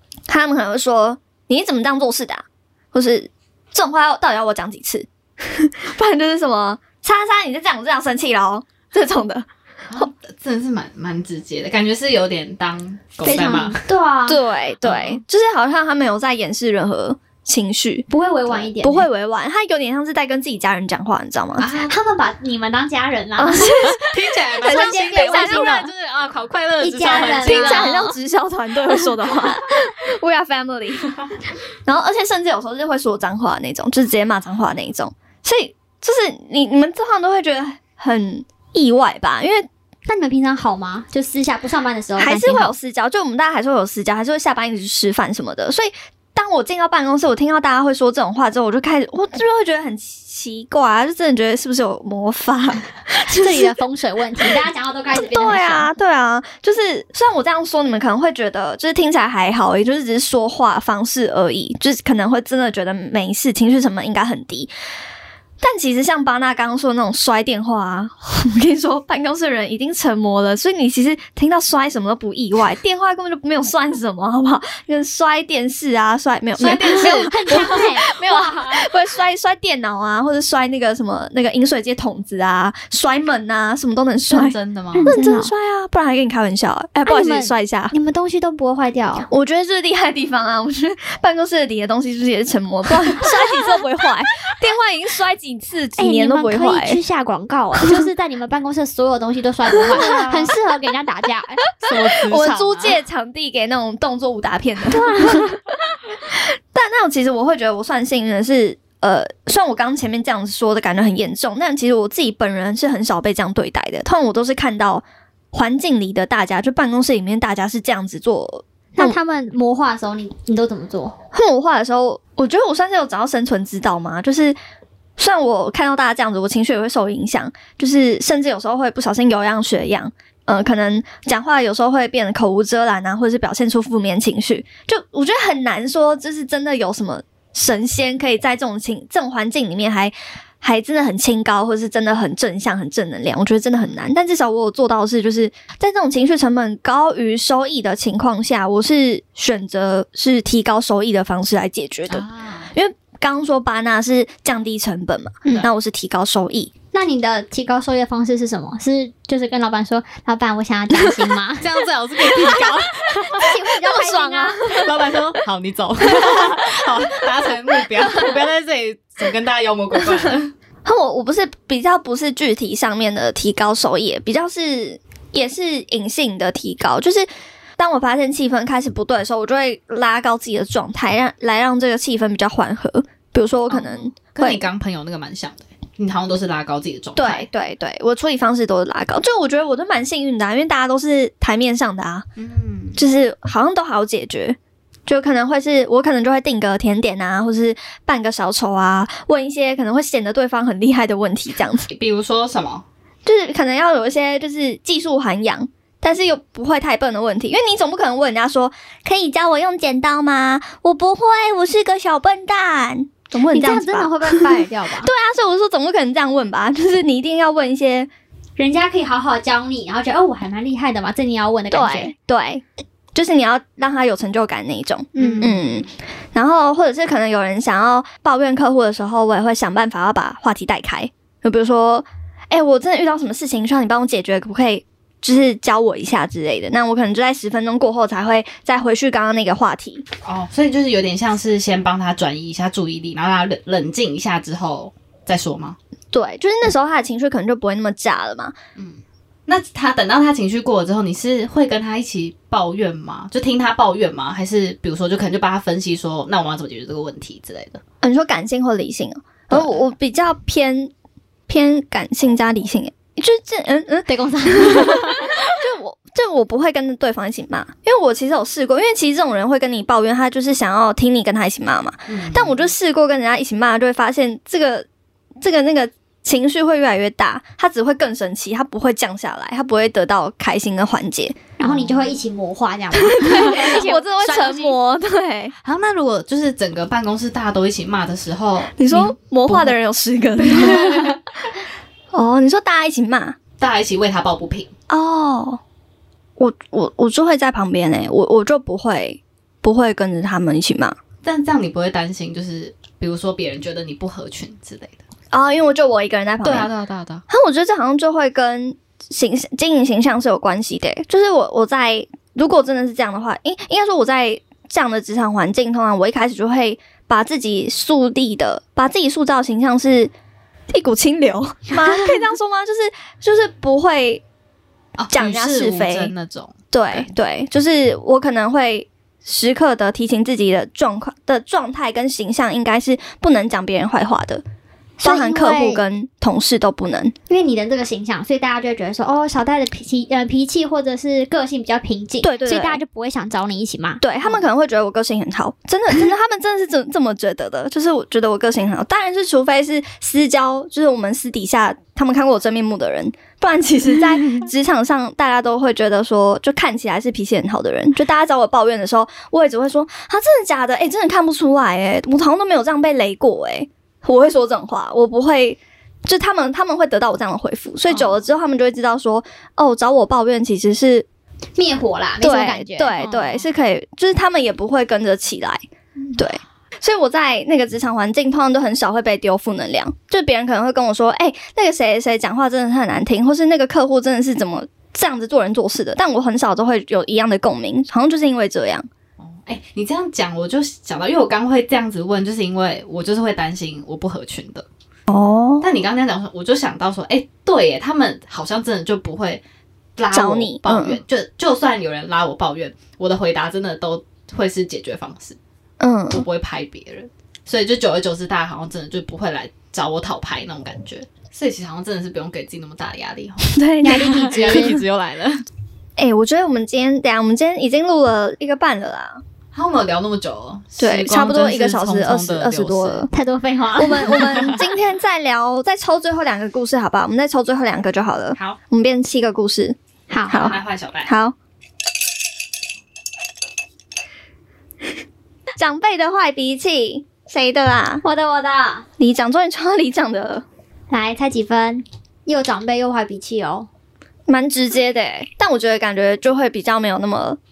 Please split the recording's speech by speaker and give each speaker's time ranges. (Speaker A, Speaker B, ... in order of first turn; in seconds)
Speaker A: 0.3-10.1, 13.3-13.6, 14.3-18.1, 18.8-21.7, 23.4-25.9, 27.1-31.1, 31.9-39.7, 42.2-53.7, 55.1-64.7, 65.6-87.9, 89.3-97.0, 99.9-100.3, 101.8-105.6, 106.3-119.2, 121.3-124.6, 125.2-156.7, 162.4-162.7, 163.7-165.2, 166.1-166.5, 170.8-184.6, 187.2-192.2, 192.9-201.9, 203.2-218.1, 221.7-240.0, 246.1-248.5, 258.0-260.9, 261.5-274.9, 275.4-281.4, 282.9-285.5, 288.8-291.2, 292.1-293.4, 294.9-295.6, 296.4-301.0, 305.3-306.7, 307.3-320.1, 320.7-324.2, 325.1-326.1, 326.7-334.4, 335.0-337.1, 342.2-342.8, 344.0-371.1, 372.2-375.6, 376.2-388.9, 395.1-395.7, 400.1-401.0, 405.8-406.2, 413.5-414.8, 416.0-419.2, 420.8-423.1, 423.8-429.8, 430.3-431.3, 435.6-438.0, 439.0-440.4, 444.3-447.4
Speaker B: 9.9-13.8, 14.8-15.2, 21.6-21.9, 23.9-28.0, 76.6-77.8, 84.3-85.1, 99.9-100.5, 101.8-103.0, 152.1-152.7, 161.6-163.5, 164.7-170.5, 183.7-187.5, 192.4-193.0, 201.9-202.8, 225.2-225.8, 240.2-245.8, 248.8-257.8, 259.5-259.8, 272.1-272.7, 281.6-282.2, 285.6-289.7, 290.4-291.2, 293.6-294.7, 301.2-305.0, 306.4-307.2, 325.0-327.1, 389.2-394.6, 395.6-399.4, 400.0-405.4, 406.1-415.4, 419.5-423.1, 424.1-424.6, 430.3-431.1
Speaker C: 13.2-14.4, 18.1-19.1, 21.9-24.0, 24.6-25.8, 26.8-28.1, 40.1-42.7, 53.2-55.9, 76.9-78.9, 85.0-85.5, 87.0-89.3, 96.0-101.6, 104.9-105.6, 119.0-121.1, 156.9-161.6, 163.4-164.7, 213.5-215.1, 218.6-222.1, 225.1-225.6, 264.1-265.3, 281.6-284.8, 335.0-335.8, 337.3-344.0, 371.6-373.1, 413.8-414.8, 423.1-424.5, 430.1-430.5, 438.0-438.9, 440.9-443.7